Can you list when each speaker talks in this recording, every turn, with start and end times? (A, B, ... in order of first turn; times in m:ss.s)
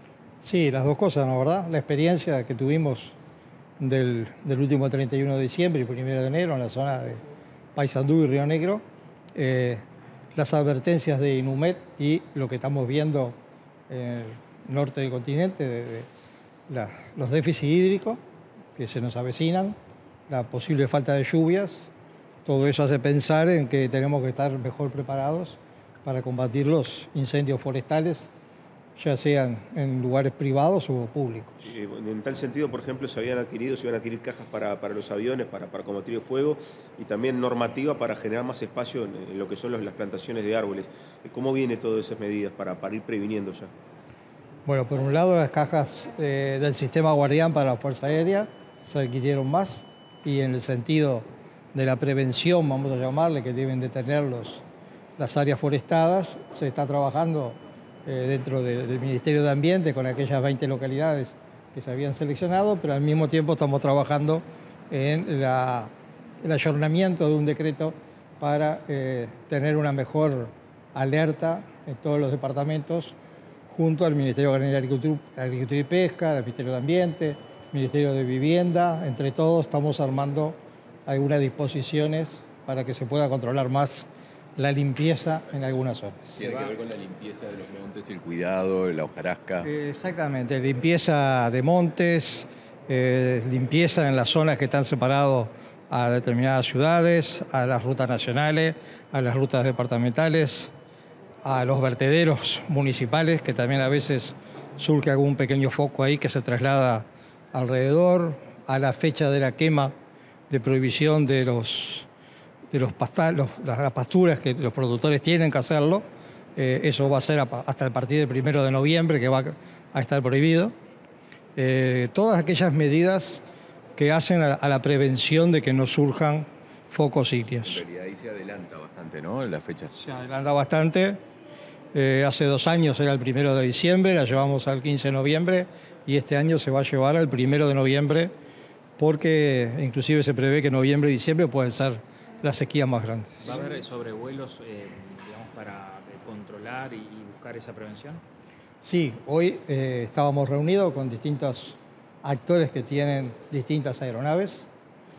0:00.4-0:03.1 A
0:03.8-0:07.2 A
0:07.7-0:08.8 A
0:09.3-0:09.8 A
0:10.3-0:13.4 A
0:13.9-0:16.1 A
0:16.7-0:18.2 A
0:18.8-0:19.8 A
0:20.3-0:21.9 A
0:22.4-0:28.3 A
0:29.0-0:31.6 A
0:31.6-0:43.7 B
0:44.6-0:54.6 A
0:55.2-1:05.9 A
1:06.4-1:13.2 A
1:13.7-1:26.4 A
1:26.3-1:29.7 C
1:29.6-1:40.7 A
1:41.4-1:49.9 A
1:50.5-1:52.1 A
1:52.7-1:56.0 A
1:56.6-2:00.7 A
2:01.6-2:03.4 A
2:04.0-2:07.8 A
2:07.6-2:09.9 C
2:09.9-2:11.2 A
2:11.9-2:18.3 A
2:19.0-2:23.5 A
2:23.4-2:28.2 D
2:28.8-2:34.7 A